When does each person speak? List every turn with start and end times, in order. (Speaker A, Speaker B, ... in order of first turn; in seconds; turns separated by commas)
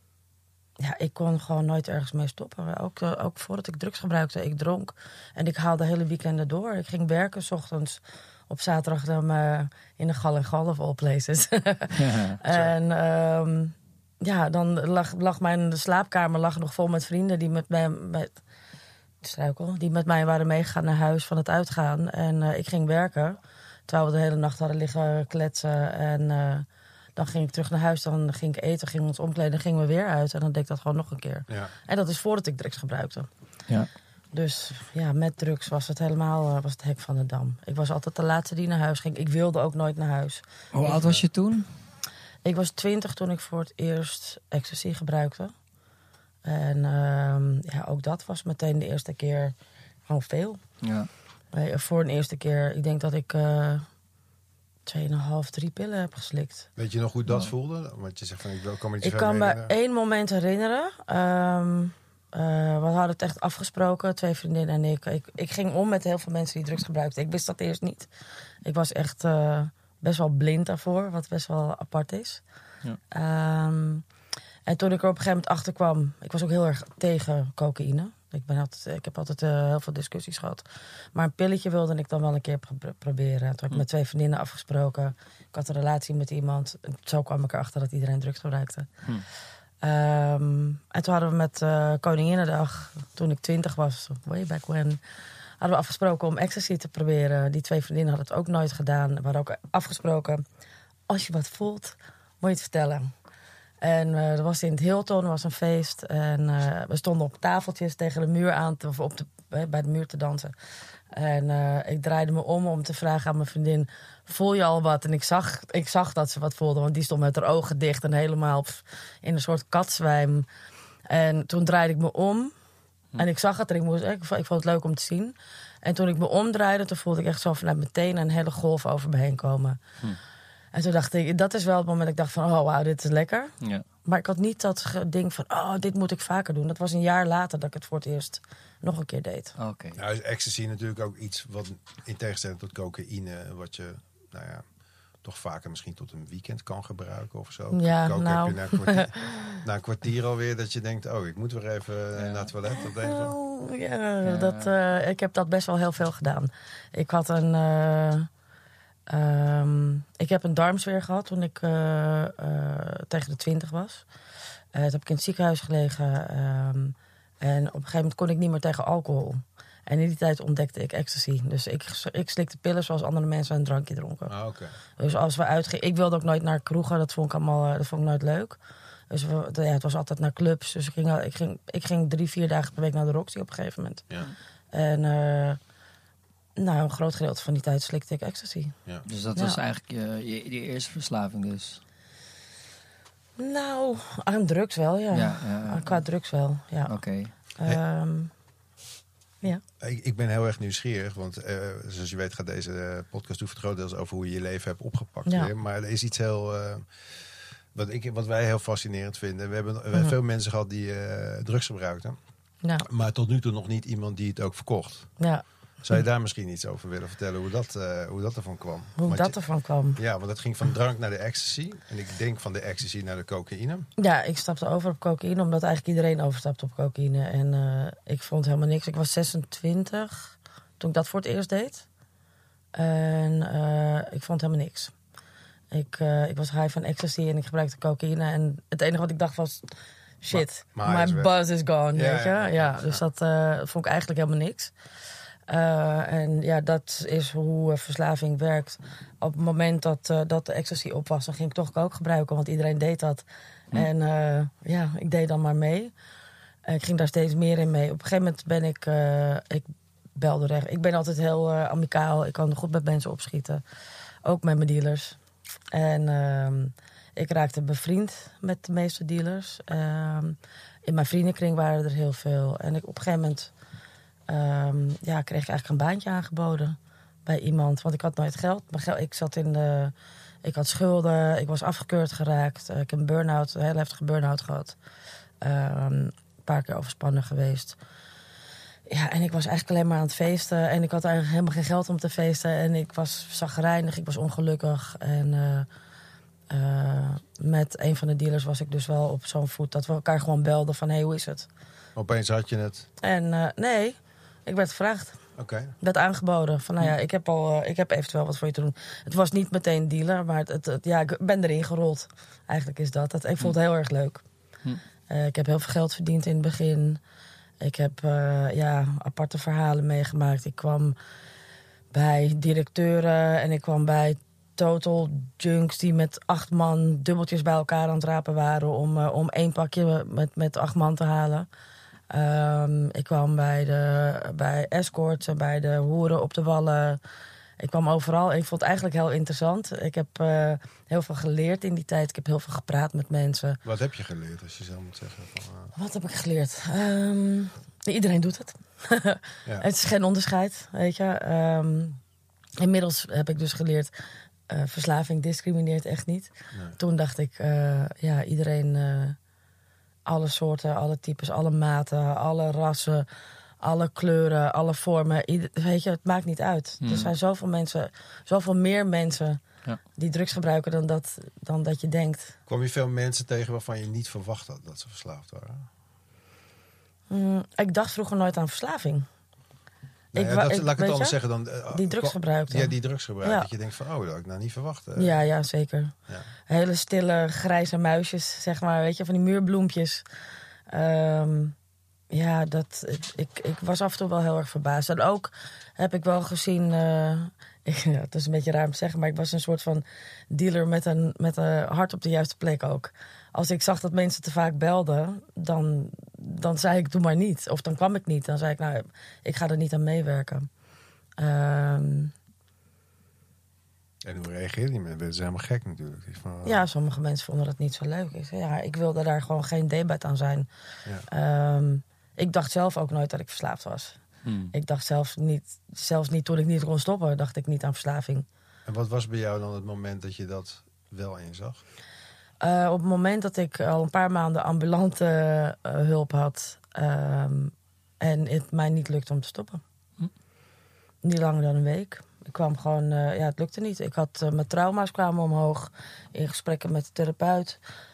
Speaker A: 0.8-18.4, Speaker B: 12.0-12.4, Speaker C: 12.5-12.7, Speaker A: 19.2-33.3, Speaker A: 34.3-41.0, Speaker B: 40.7-41.6, Speaker C: 40.9-41.2, Speaker A: 42.4-45.5, Speaker A: 46.4-49.5, Speaker A: 50.1-50.6, Speaker B: 50.8-51.1, Speaker A: 51.5-53.9, Speaker A: 54.9-56.7, Speaker C: 56.8-59.7, Speaker A: 59.0-68.1, Speaker A: 68.6-72.4, Speaker A: 73.1-74.0, Speaker A: 74.7-88.9, Speaker A: 89.8-95.0, Speaker A: 95.6-100.4, Speaker A: 101.1-103.1, Speaker A: 103.8-110.5, Speaker A: 111.1-120.5, Speaker A: 121.1-122.5, Speaker A: 123.2-129.8, Speaker A: 130.7-133.5, Speaker A: 134.0-139.5, Speaker B: 139.6-140.0, Speaker C: 139.9-144.6, Speaker C: 145.2-153.3, Speaker A: 147.7-149.6, Speaker B: 152.2-152.5, Speaker A: 152.7-158.3, Speaker B: 154.2-154.7, Speaker A: 159.1-164.0, Speaker A: 164.7-174.3, Speaker C: 174.3-174.7, Speaker A: 175.0-178.6, Speaker A: 179.1-184.0, Speaker A: 184.7-185.6, Speaker A: 186.6-188.7, Speaker B: 189.1-191.8, Speaker A: 193.4-196.9, Speaker B: 195.1-196.0, Speaker B: 196.9-197.3, Speaker A: 197.6-198.3, Speaker C: 199.8-207.0, Speaker C: 207.7-212.2, Speaker C: 212.8-215.1, Speaker C: 215.8-219.3, Speaker A: 219.0-220.0, Speaker C: 219.9-223.9, Speaker A: 224.0-231.9, Speaker A: 232.7-234.9, Speaker A: 235.7-239.7, Speaker A: 240.2-244.7, Speaker C: 240.3-241.3, Speaker C: 241.9-243.0, Speaker A: 245.5-255.9, Speaker A: 256.6-263.6, Speaker A: 264.2-265.2, Speaker A: 265.7-273.5, Speaker A: 274.3-279.9, Speaker A: 280.4-284.8, Speaker A: 285.4-287.8, Speaker A: 288.9-295.7, Speaker A: 296.5-301.5, Speaker C: 301.9-302.9, Speaker A: 303.0-305.2, Speaker C: 305.4-305.7, Speaker A: 305.8-314.2, Speaker A: 315.1-317.0, Speaker A: 317.6-321.0, Speaker A: 321.9-331.5, Speaker A: 332.1-337.0, Speaker A: 337.6-343.6, Speaker C: 343.6-345.7, Speaker A: 345.8-352.0, Speaker A: 352.6-353.9, Speaker A: 354.5-359.2, Speaker C: 356.5-356.8, Speaker A: 360.1-363.1, Speaker A: 363.6-369.4, Speaker B: 366.8-367.1, Speaker A: 369.9-372.4, Speaker C: 372.5-375.7, Speaker A: 377.1-379.1, Speaker A: 380.1-381.2, Speaker C: 380.1-385.1, Speaker A: 381.7-383.5, Speaker A: 384.9-385.9, Speaker A: 386.5-390.0, Speaker A: 390.7-391.5, Speaker A: 392.1-410.5, Speaker A: 411.2-412.1, Speaker C: 414.0-416.6, Speaker A: 416.4-420.5, Speaker A: 421.1-424.0, Speaker B: 424.2-424.5, Speaker A: 424.5-428.2, Speaker C: 428.6-431.6, Speaker A: 432.4-439.6, Speaker A: 441.0-447.6